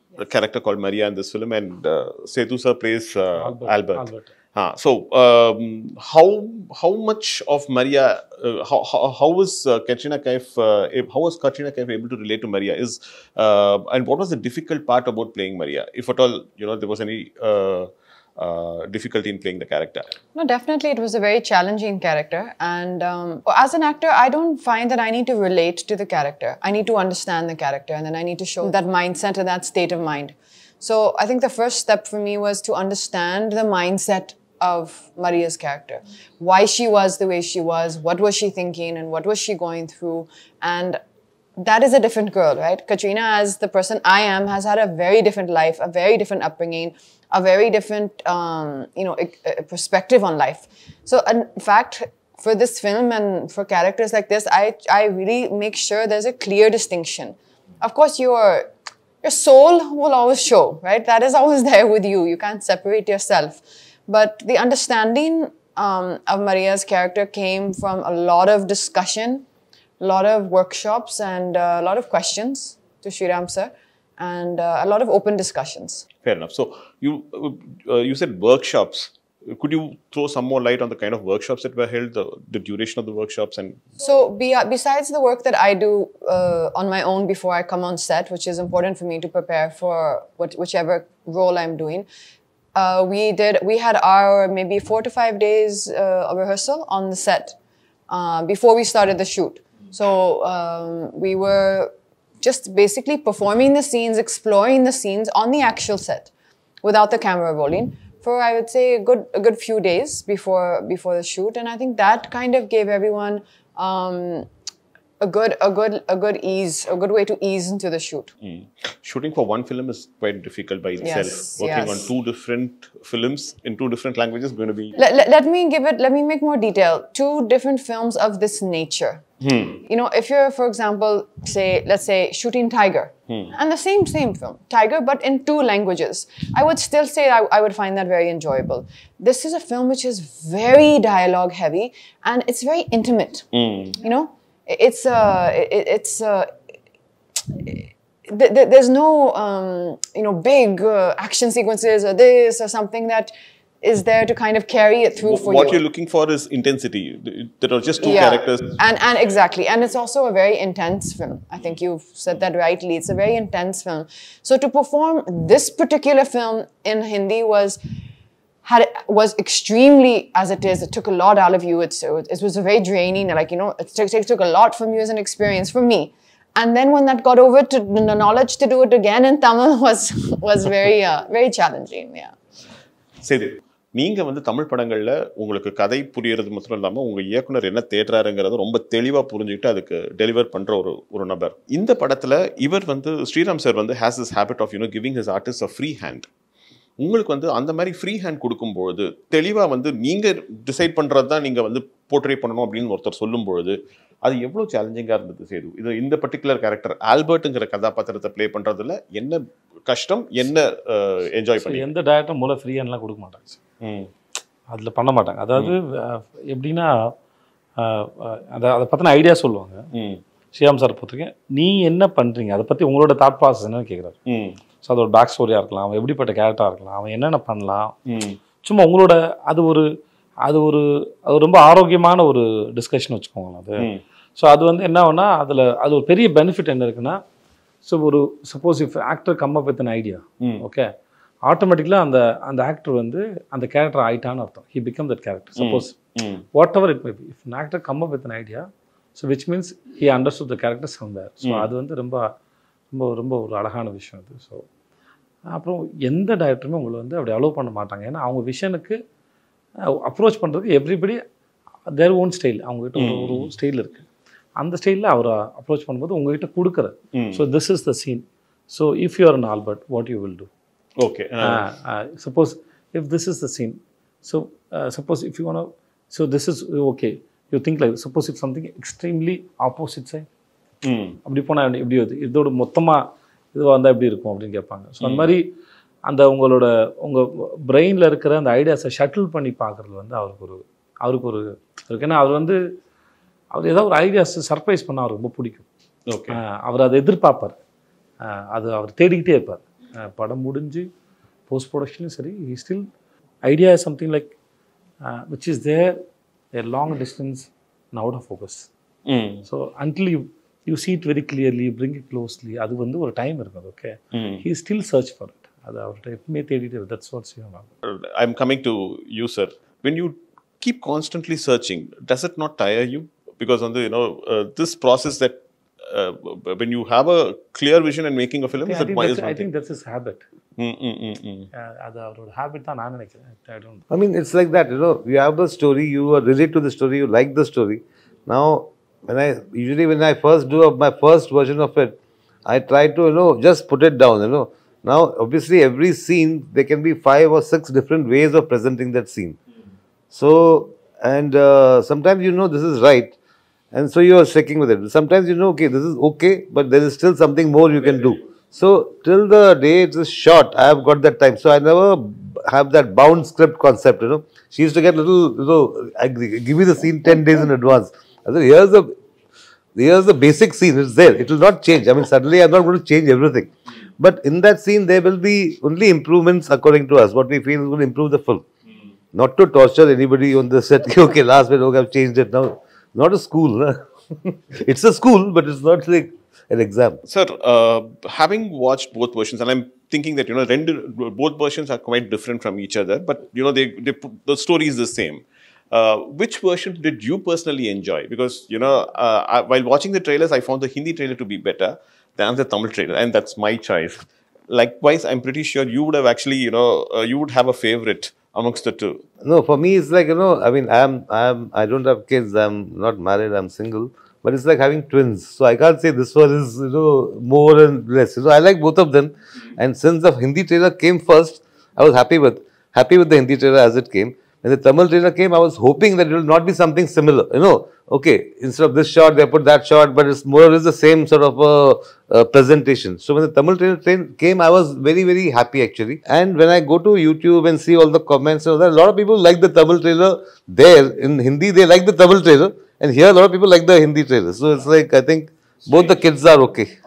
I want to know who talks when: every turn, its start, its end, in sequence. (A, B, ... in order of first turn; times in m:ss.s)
0:00.2-0:20.0 A
0:03.3-0:04.3 B
0:20.3-0:41.0 C
0:41.6-0:58.7 C
0:59.2-1:09.4 C
1:10.0-1:16.0 C
1:16.2-1:23.8 A
1:24.0-1:32.1 C
1:32.7-1:37.6 C
1:38.1-1:46.3 C
1:46.8-1:54.5 C
1:55.2-1:58.3 C
1:58.4-2:05.0 A
2:01.0-2:02.1 C
2:05.0-2:09.2 C
2:09.4-2:09.8 A
2:09.8-2:23.5 C
2:23.5-2:24.0 A
2:24.0-2:26.5 C
2:27.5-2:35.8 C
2:35.2-2:38.8 A
2:38.0-2:47.8 C
2:48.6-3:02.3 C
3:03.2-3:16.3 A
3:17.0-3:31.9 A
3:31.6-3:33.6 B
3:33.8-3:34.1 A
3:34.7-3:36.9 B
3:37.8-3:39.8 B
3:39.9-3:40.2 A
3:40.5-3:44.2 B
3:44.3-3:44.6 A
3:44.8-3:47.9 B
3:48.0-3:48.4 A
3:48.6-3:49.9 B
3:50.4-3:57.2 B
3:57.8-4:00.9 B
4:01.4-4:06.0 B
4:05.6-4:06.4 A
4:06.5-4:12.2 B
4:11.4-4:11.7 A
4:12.9-4:14.6 B
4:15.5-4:19.0 B
4:20.0-4:21.2 B
4:21.9-4:30.5 B
4:22.9-4:23.5 A
4:27.1-4:27.4 A
4:31.0-4:31.6 A
4:31.4-4:40.3 B
4:40.8-4:41.2 A
4:41.2-4:45.4 B
4:45.0-4:45.3 A
4:46.0-4:52.6 B
4:53.5-4:55.6 B
4:56.1-4:56.4 A
4:56.3-4:57.6 B
4:58.2-5:00.9 B
5:01.5-5:02.8 B
5:03.4-5:04.3 B
5:05.0-5:06.0 B
5:06.5-5:08.7 B
5:09.0-5:09.4 A
5:09.5-5:17.7 B
5:14.1-5:14.4 A
5:17.8-5:29.5 A
5:28.6-5:30.2 B
5:30.6-5:31.5 A
5:31.5-5:33.8 B
5:33.9-5:41.9 D
5:42.4-5:49.4 D
5:50.1-5:53.1 D
5:53.7-6:08.9 D
6:09.7-6:18.4 D
6:19.1-6:27.0 D
6:27.0-6:49.0 A
6:49.2-7:26.7 D
7:25.7-7:26.0 A